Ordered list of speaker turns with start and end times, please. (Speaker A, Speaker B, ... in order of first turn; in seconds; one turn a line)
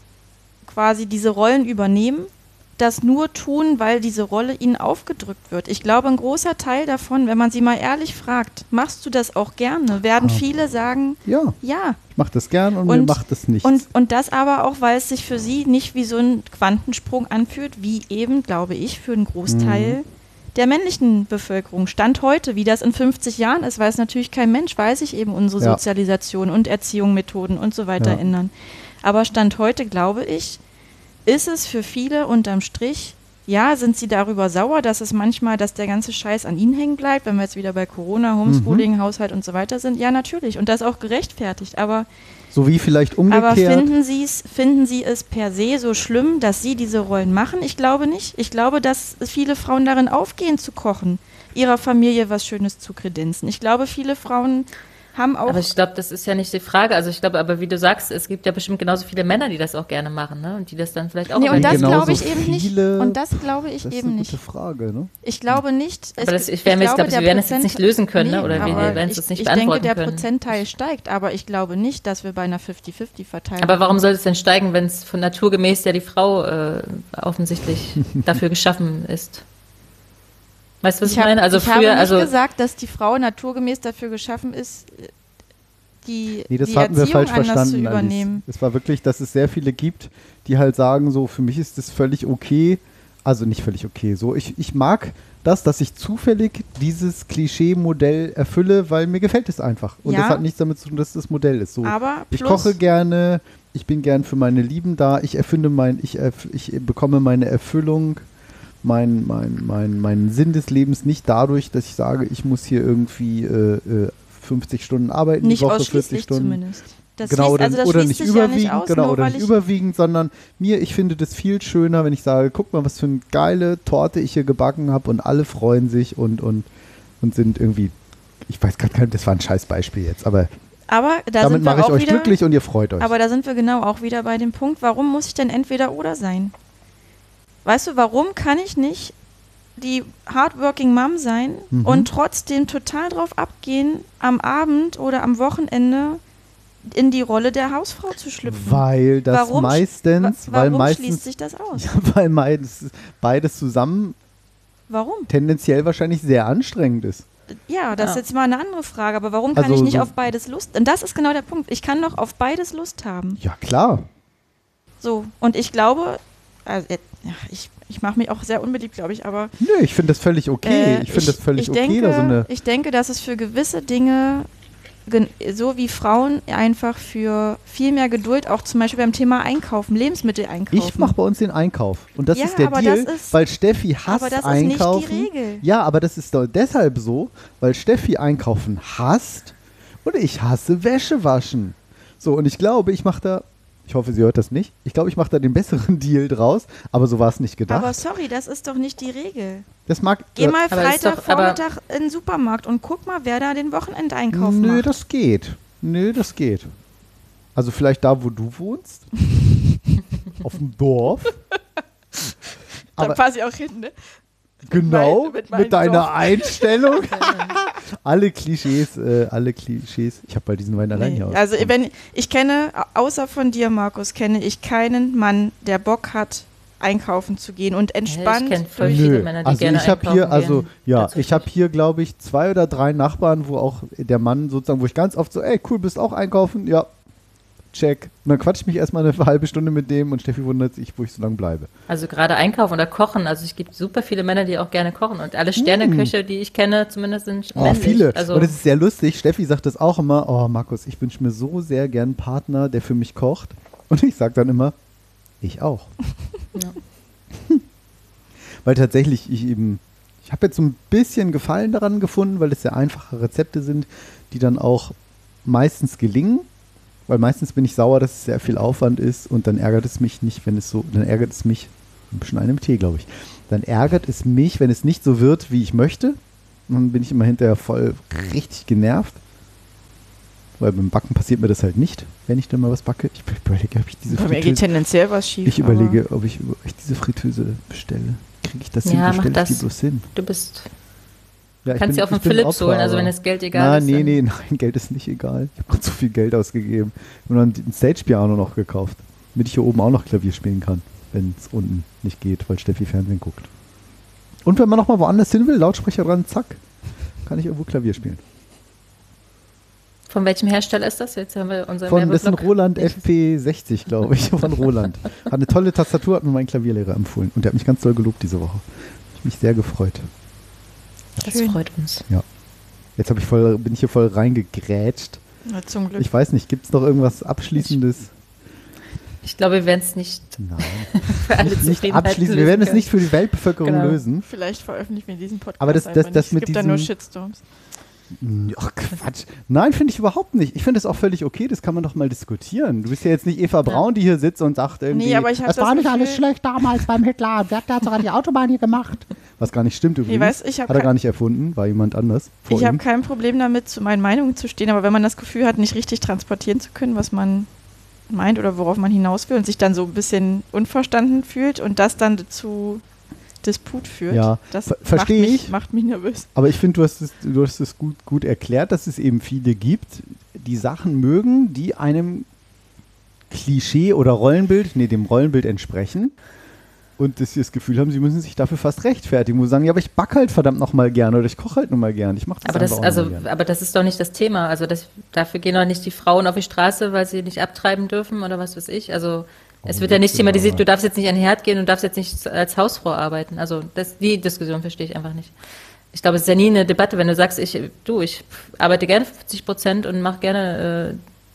Speaker A: 0.6-12.0
Speaker B: 10.2-10.4
Speaker B: 11.2-11.6
Speaker B: 12.1-13.8
Speaker A: 12.8-30.6
Speaker B: 19.5-20.0
Speaker A: 31.2-42.1
Speaker B: 38.5-38.9
Speaker B: 42.5-43.9
Speaker A: 43.3-55.7
Speaker C: 55.5-62.2
Speaker A: 61.3-64.4
Speaker B: 61.5-65.6
Speaker A: 65.2-74.0
Speaker C: 66.2-70.3
Speaker B: 68.4-69.0
Speaker C: 73.6-79.4
Speaker C: 80.8-82.3
Speaker A: 81.0-85.1
Speaker A: 86.0-88.4
Speaker B: 86.5-108.2
Speaker A: 100.0-100.4
Speaker A: 101.8-102.8
Speaker B: 108.8-116.6
Speaker A: 115.4-119.5
Speaker B: 117.2-126.7
Speaker B: 127.2-130.5
Speaker A: 130.9-132.4
Speaker B: 131.4-133.1
Speaker A: 133.0-136.5
Speaker A: 137.6-139.1
Speaker A: 139.8-146.2
Speaker B: 141.7-142.1
Speaker A: 146.8-151.8
Speaker B: 148.4-154.2
Speaker A: 154.9-155.3
Speaker B: 155.3-157.2
Speaker A: 157.7-163.4
Speaker C: 157.9-158.2
Speaker B: 159.5-160.1
Speaker B: 163.4-164.1
Speaker A: 165.0-169.5
Speaker B: 169.6-172.5
Speaker A: 170.6-174.5
Speaker A: 175.1-181.1
Speaker B: 180.7-198.0
Speaker A: 182.3-183.4
Speaker A: 184.1-185.6
Speaker A: 197.7-199.7
Speaker B: 199.9-200.6
Speaker A: 200.3-204.9
Speaker C: 200.7-201.6
Speaker B: 204.3-206.7
Speaker B: 207.5-209.1
Speaker B: 210.4-211.4
Speaker A: 213.0-213.9
Speaker B: 214.7-221.7
Speaker A: 214.8-217.0
Speaker C: 217.1-217.6
Speaker A: 220.9-229.1
Speaker C: 228.1-231.5
Speaker B: 228.8-236.9
Speaker B: 237.7-241.7
Speaker C: 241.9-248.5
Speaker B: 245.6-246.1
Speaker B: 247.6-254.7
Speaker B: 255.4-255.9
Speaker B: 257.4-257.6
Speaker B: 258.6-266.5
Speaker B: 267.1-279.2
Speaker B: 280.6-284.6
Speaker A: 284.1-286.0
Speaker B: 285.4-290.1
Speaker C: 288.8-290.7
Speaker B: 291.6-303.5
Speaker C: 291.8-294.2
Speaker B: 304.4-306.6
Speaker B: 307.2-308.2
Speaker C: 310.1-313.0
Speaker B: 311.9-320.1
Speaker C: 321.2-322.0
Speaker A: 321.2-321.6
Speaker B: 323.0-325.2
Speaker A: 325.4-326.1
Speaker B: 326.0-328.1
Speaker C: 329.2-332.9
Speaker B: 330.4-334.2
Speaker C: 333.6-334.0
Speaker A: 334.2-337.4
Speaker B: 335.6-336.9
Speaker B: 338.1-352.8
Speaker A: 344.9-346.2
Speaker A: 350.1-350.9
Speaker A: 352.5-357.5
Speaker A: 358.1-362.8
Speaker A: 363.4-366.3
Speaker B: 364.1-365.5
Speaker B: 366.3-372.3
Speaker B: 373.3-376.1
Speaker B: 377.0-383.2
Speaker C: 382.4-395.3
Speaker B: 389.6-390.6
Speaker C: 395.9-401.0